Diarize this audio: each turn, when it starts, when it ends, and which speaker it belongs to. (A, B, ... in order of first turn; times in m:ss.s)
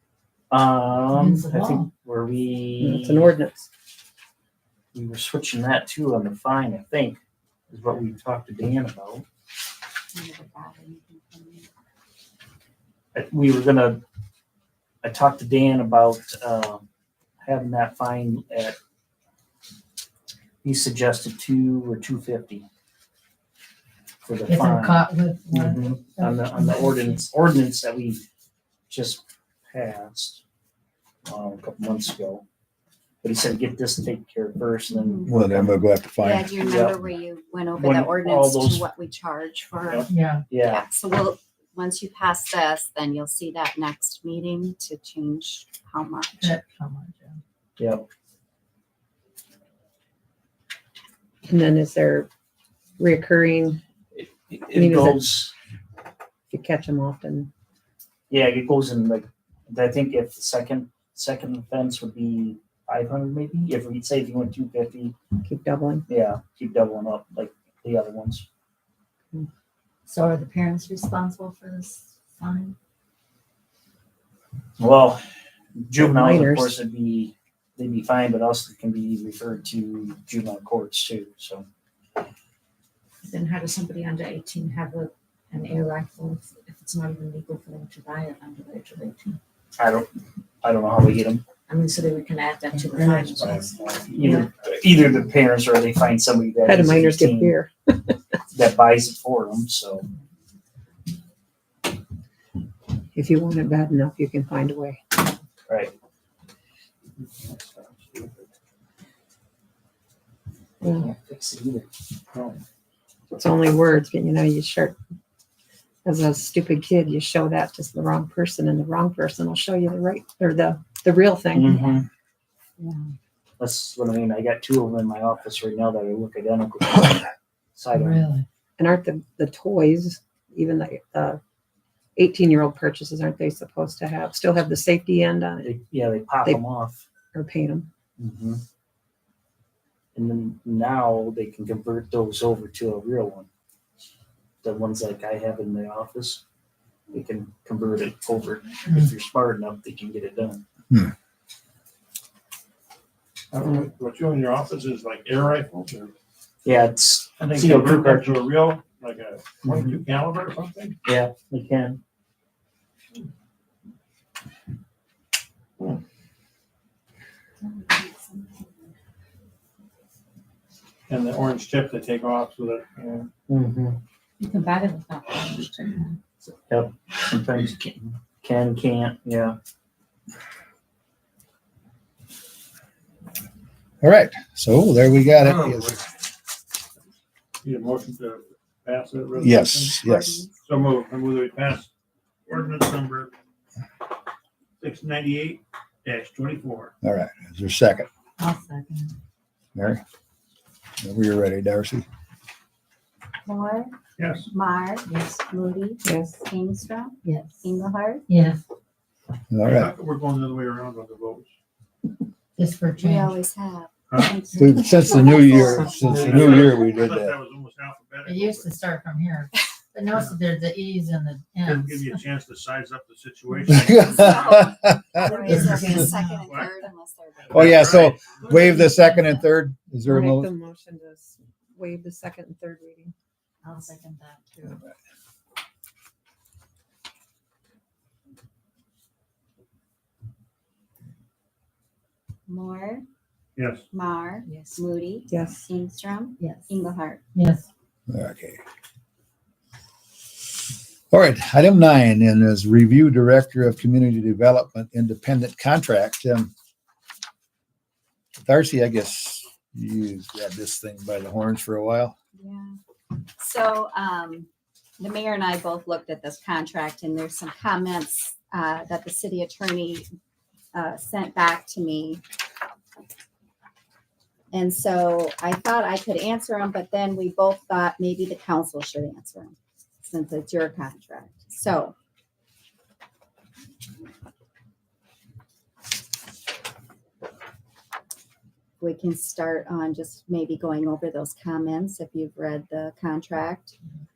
0:00.5-0:03.3 A
0:01.1-0:01.9 B
0:02.8-0:03.7 C
0:04.9-0:07.2 A
0:07.7-0:09.2 A
0:10.1-0:11.7 D
0:13.1-0:14.0 A
0:15.0-0:16.8 A
0:17.4-0:18.8 A
0:20.6-0:22.6 A
0:24.2-0:28.2 A
0:24.4-0:27.2 B
0:28.9-0:30.4 A
0:31.2-0:32.4 A
0:33.2-0:35.8 A
0:34.9-0:35.3 D
0:35.3-0:36.5 E
0:36.2-0:46.6 D
0:36.6-0:37.0 A
0:37.7-0:38.9 A
0:40.1-0:40.4 B
0:40.5-0:40.9 A
0:46.4-0:47.4 B
0:47.8-0:48.0 A
0:51.4-0:52.3 C
0:53.0-0:53.8 C
0:54.1-0:55.5 A
0:54.7-0:55.2 C
0:56.5-0:57.5 C
0:58.3-1:05.2 A
1:05.4-1:06.0 C
1:06.1-1:08.4 A
1:10.1-1:12.4 D
1:14.8-1:15.2 A
1:15.8-1:21.6 A
1:16.0-1:16.8 C
1:23.2-1:29.4 F
1:29.8-1:30.1 A
1:30.6-1:31.4 A
1:31.7-1:34.5 F
1:34.0-1:37.6 A
1:36.6-1:38.2 C
1:38.5-1:40.1 A
1:43.1-1:45.0 C
1:45.7-1:45.9 A
1:47.2-1:48.4 G
1:50.8-1:51.1 C
1:50.8-1:51.9 A
1:52.3-1:52.6 G
1:53.3-1:55.0 C
1:56.0-2:02.0 C
2:01.5-2:02.1 A
2:03.6-2:08.2 A
2:07.9-2:08.4 B
2:08.8-2:11.4 C
2:12.2-2:15.7 C
2:15.6-2:17.0 A
2:17.3-2:17.9 C
2:18.2-2:18.6 A
2:20.1-2:23.5 A
2:24.6-2:26.4 A
2:27.1-2:30.6 A
2:33.5-2:36.1 G
2:36.6-2:38.5 A
2:37.4-2:41.0 G
2:39.6-2:40.0 A
2:41.0-2:42.0 A
2:47.6-2:48.9 D
2:51.1-2:53.3 G
2:53.5-2:54.0 A
2:54.4-2:56.2 F
2:56.7-2:59.6 A
3:04.0-3:06.0 E
3:07.6-3:10.0 G
3:09.4-3:10.4 E
3:10.0-3:10.6 D
3:10.6-3:11.9 G
3:12.5-3:13.3 G
3:14.8-3:16.9 G
3:17.0-3:18.1 E
3:18.4-3:19.1 B
3:19.7-3:20.0 E
3:21.0-3:22.0 E
3:23.4-3:28.2 D
3:24.2-3:24.5 G
3:26.0-3:26.3 C
3:27.2-3:27.6 B
3:28.3-3:28.6 B
3:29.5-3:29.9 E
3:29.6-3:31.5 G
3:32.6-3:33.4 B
3:33.0-3:36.2 D
3:34.1-3:34.4 G
3:34.6-3:37.3 E
3:36.0-3:38.7 G
3:38.2-3:42.0 B
3:41.6-3:44.8 G
3:43.7-3:45.3 E
3:43.8-3:47.8 D
3:45.2-3:46.4 B
3:45.5-3:46.8 G
3:47.4-3:48.9 G
3:47.5-3:50.5 E
3:48.9-3:49.3 B
3:50.0-3:53.1 C
3:53.6-3:54.8 B
4:02.5-4:03.0 D
4:03.6-4:03.9 G
4:03.9-4:07.2 D
4:04.4-4:04.8 F
4:05.3-4:05.6 C
4:06.4-4:06.7 B
4:07.3-4:07.6 B
4:08.1-4:08.6 E
4:11.1-4:16.5 E
4:18.4-4:22.1 E
4:22.3-4:22.8 D
4:23.3-4:24.5 D
4:25.0-4:30.1 D
4:30.7-4:32.2 D
4:34.5-4:41.9 D
4:48.8-4:53.7 D